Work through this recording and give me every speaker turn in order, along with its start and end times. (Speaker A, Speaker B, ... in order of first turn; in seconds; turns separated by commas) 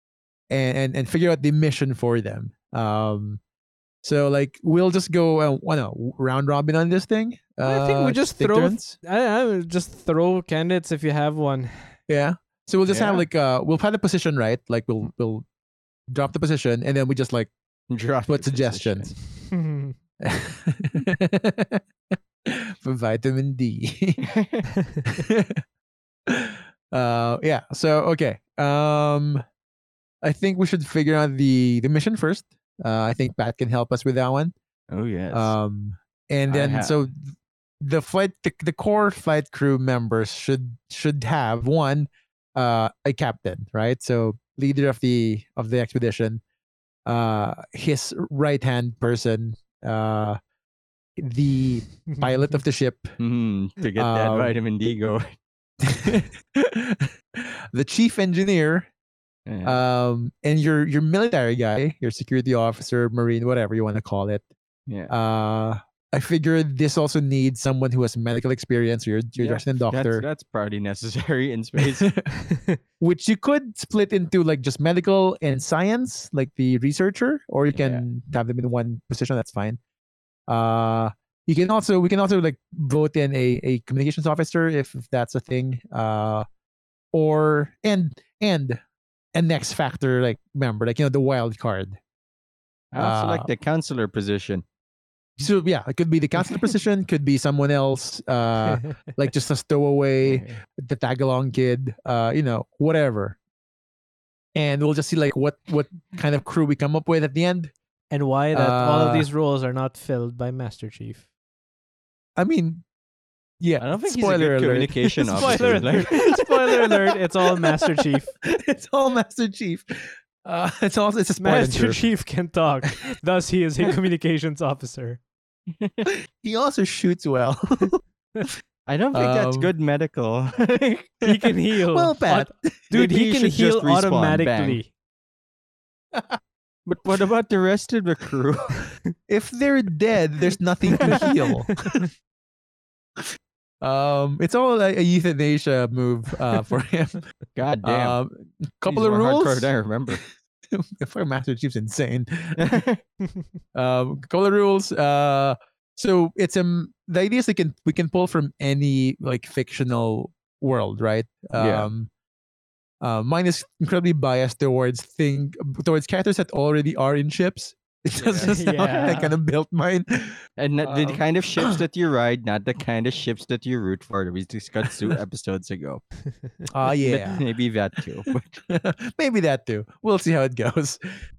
Speaker A: 0.5-3.4, Speaker A: 4.0-9.0, Speaker B: 7.6-11.9, Speaker A: 12.1-15.5, Speaker C: 12.9-13.2, Speaker A: 16.1-17.5, Speaker C: 17.9-19.1, Speaker A: 18.3-19.1, Speaker B: 19.5-20.0, Speaker A: 20.2-21.8, Speaker A: 22.4-24.2, Speaker C: 24.2-24.7, Speaker A: 25.1-25.6, Speaker A: 26.3-29.4, Speaker A: 30.2-34.5, Speaker C: 34.9-35.5, Speaker A: 35.3-46.4, Speaker C: 36.5-37.0, Speaker A: 47.1-50.4, Speaker A: 51.2-53.2, Speaker C: 53.2-55.4, Speaker A: 54.0-54.5, Speaker A: 55.8-58.9, Speaker C: 59.5-59.8, Speaker A: 59.6-64.5, Speaker C: 64.9-65.1, Speaker A: 65.1-70.2, Speaker C: 69.4-72.1, Speaker A: 71.8-72.3, Speaker B: 72.4-72.8, Speaker A: 73.0-79.8, Speaker C: 77.7-78.0, Speaker A: 80.5-86.5, Speaker A: 87.1-88.8, Speaker A: 89.3-92.0, Speaker C: 92.9-94.6, Speaker A: 93.0-93.5, Speaker A: 95.4-103.4, Speaker C: 100.2-100.6, Speaker A: 104.5-107.7, Speaker B: 108.1-111.2, Speaker A: 108.5-109.3, Speaker A: 112.4-112.8, Speaker A: 113.6-122.0, Speaker C: 113.8-116.1, Speaker B: 115.2-118.3, Speaker B: 121.4-125.2, Speaker C: 125.8-126.1, Speaker A: 126.4-128.5, Speaker C: 128.9-131.2, Speaker A: 129.1-129.7, Speaker B: 131.2-134.9, Speaker A: 131.2-132.8, Speaker C: 132.9-134.8, Speaker A: 136.1-136.4, Speaker C: 136.9-138.9, Speaker A: 139.3-142.1, Speaker C: 141.0-141.3, Speaker B: 141.0-142.0, Speaker A: 143.8-147.2, Speaker C: 147.6-148.2, Speaker A: 147.8-152.8, Speaker C: 148.9-150.2, Speaker C: 152.6-153.0, Speaker A: 153.8-162.1, Speaker C: 161.6-161.9, Speaker A: 163.0-171.8, Speaker C: 168.2-168.6, Speaker B: 168.5-169.4, Speaker C: 170.6-176.0, Speaker A: 176.7-177.4, Speaker C: 177.0-178.5, Speaker A: 178.7-181.0